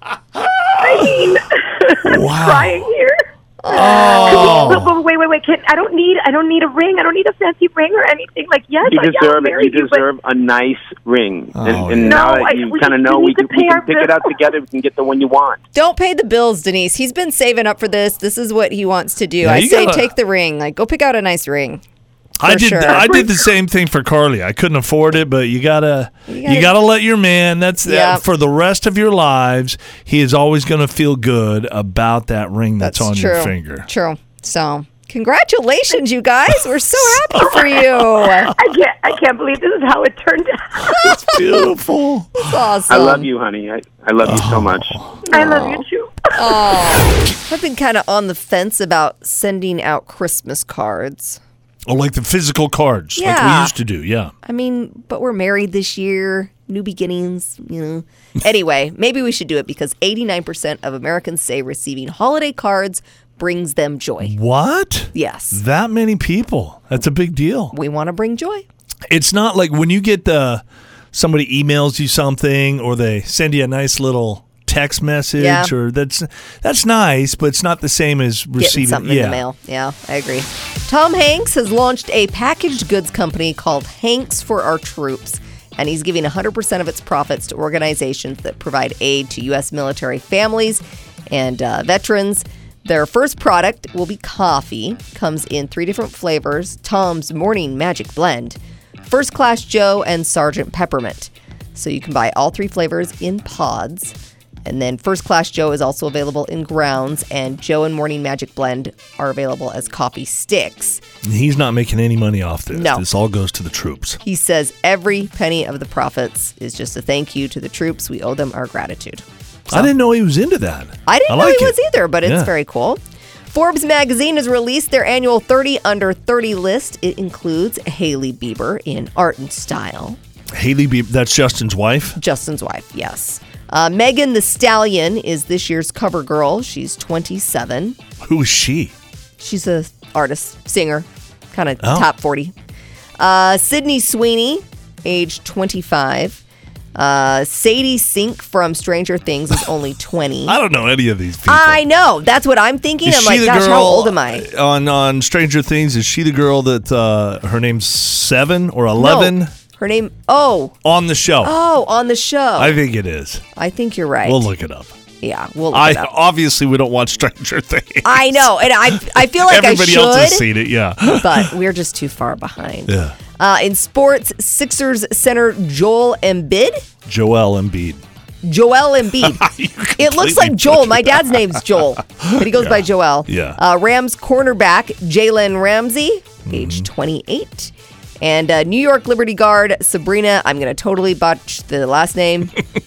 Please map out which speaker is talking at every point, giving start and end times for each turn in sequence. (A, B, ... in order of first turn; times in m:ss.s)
0:00.4-0:01.1 A
0:00.8-0:10.0 B
0:02.0-0:02.9 A
0:03.6-0:04.8 C
0:03.7-0:04.9 A
0:08.8-0:15.6 D
0:11.6-0:12.2 A
0:12.0-0:14.3 B
0:15.7-0:21.8 C
0:19.4-0:20.1 A
0:22.4-0:33.9 A
0:22.4-0:23.3 C
0:26.3-0:26.8 C
0:27.8-0:28.2 C
0:32.8-0:38.5 C
0:37.0-0:38.5 A
0:38.5-0:41.3 B
0:40.9-0:42.5 A
0:42.4-0:43.3 C
0:42.9-0:45.0 D
0:44.2-0:45.7 A
0:45.3-0:46.3 B
0:46.3-0:51.4 C
0:51.9-0:54.3 A
0:53.2-0:53.7 C
0:54.4-1:04.3 C
1:04.2-1:07.7 A
1:05.1-1:05.6 C
1:07.7-1:08.6 C
1:09.1-1:19.4 A
1:15.4-1:15.7 C
1:18.6-1:44.1 C
1:44.6-1:51.0 C
1:51.2-1:54.2 A
1:52.7-1:53.0 C
1:54.2-1:59.9 C
1:59.7-2:02.5 A
2:01.0-2:03.0 C
2:03.5-2:10.2 C
2:10.5-2:12.2 A
2:12.2-2:18.0 C
2:18.2-2:18.9 A
2:19.4-2:22.5 C
2:21.8-2:22.1 A
2:23.2-2:26.4 C
2:26.9-2:30.6 C
2:30.4-2:31.8 A
2:31.5-2:34.4 C
2:33.0-2:39.5 A
2:39.0-2:40.7 C
2:40.8-2:41.5 A
2:41.4-2:42.8 C
2:42.6-2:43.4 A
2:43.6-2:44.4 C
2:44.2-2:45.0 A
2:45.2-2:46.1 C
2:45.7-2:51.5 A
2:48.0-2:50.5 C
2:51.1-2:56.8 C
2:52.9-2:53.2 A
2:57.0-2:58.0 A
2:58.4-2:59.4 C
2:59.2-3:03.6 A
3:00.0-3:12.6 C
3:06.4-3:06.9 A